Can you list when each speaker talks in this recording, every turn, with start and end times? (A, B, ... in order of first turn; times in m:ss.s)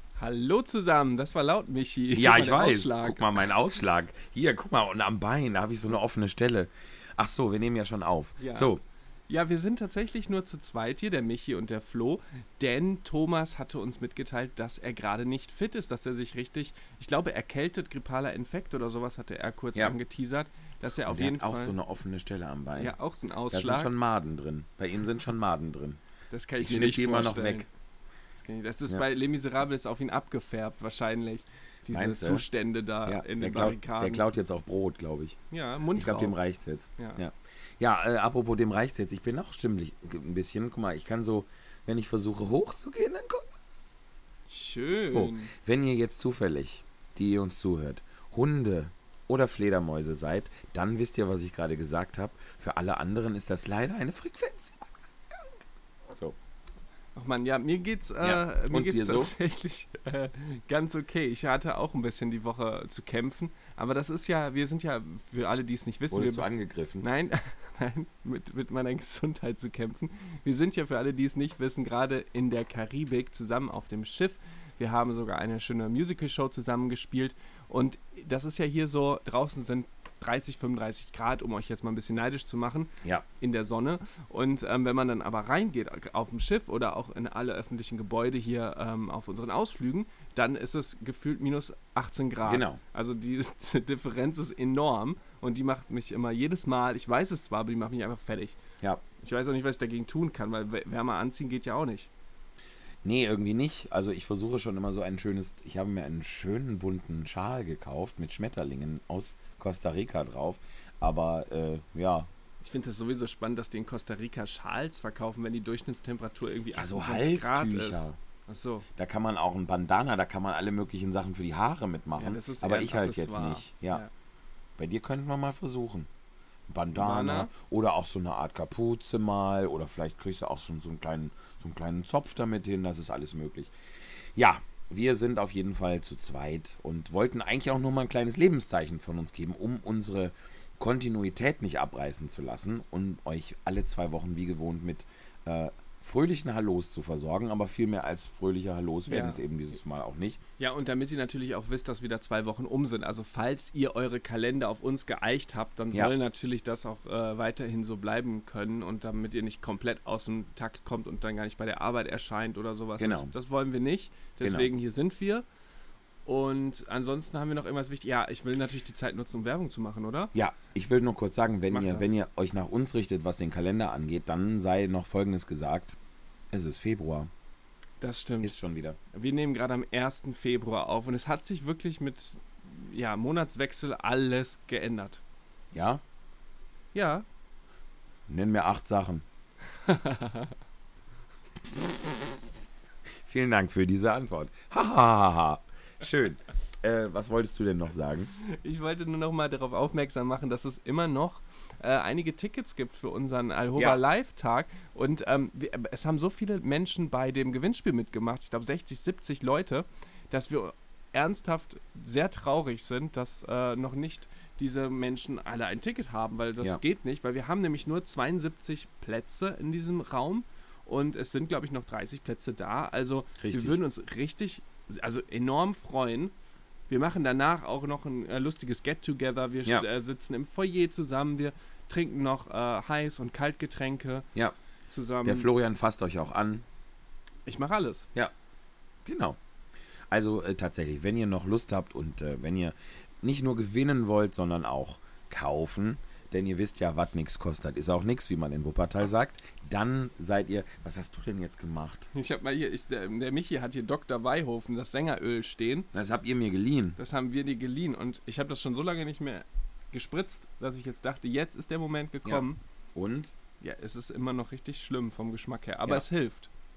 0:00.2-0:03.5 A
0:02.1-0:08.8 B
0:08.4-0:08.7 A
0:09.3-0:21.8 A
0:21.0-0:22.9 B
0:22.8-0:23.9 A
0:23.5-0:26.0 B
0:26.3-0:27.7 A
0:26.6-0:27.6 B
0:28.4-0:34.2 A
0:31.9-0:32.4 B
0:33.0-0:35.4 B
0:35.5-0:36.4 A
0:35.9-0:43.4 B
0:44.5-0:45.5 A
0:45.0-0:54.9 B
0:57.1-1:38.6 A
0:58.2-0:59.3 B
1:06.1-1:07.1 B
1:32.4-1:32.8 B
1:39.2-1:42.1 A
1:43.0-1:52.3 B
1:52.6-1:58.8 A
1:56.7-1:58.2 B
1:59.0-2:04.0 B
2:02.2-2:04.1 A
2:04.8-2:06.1 B
2:06.7-2:30.4 B
2:06.9-2:07.5 A
2:29.1-2:29.4 A
2:30.6-2:45.4 A
2:43.0-2:43.3 B
2:44.4-2:44.7 B
2:46.2-2:50.3 A
2:50.3-2:56.0 B
2:51.7-2:52.1 A
2:56.5-2:57.3 B
2:58.0-2:58.5 A
2:58.4-2:59.0 B
2:59.1-3:05.2 A
3:05.7-3:06.0 B
3:06.9-3:07.2 A
3:08.3-3:09.2 B
3:09.8-3:10.5 A
3:13.2-3:18.3 B
3:18.4-3:46.3 A
3:43.4-3:43.8 B
3:46.9-3:54.3 A
3:54.9-3:55.5 A
3:55.2-3:56.6 B
3:57.4-3:58.0 A
3:59.0-3:59.4 B
4:00.1-4:12.1 B
4:12.1-4:15.9 A
4:15.9-4:17.0 B
4:17.0-4:22.6 A
4:22.2-4:23.3 B
4:23.6-4:26.5 A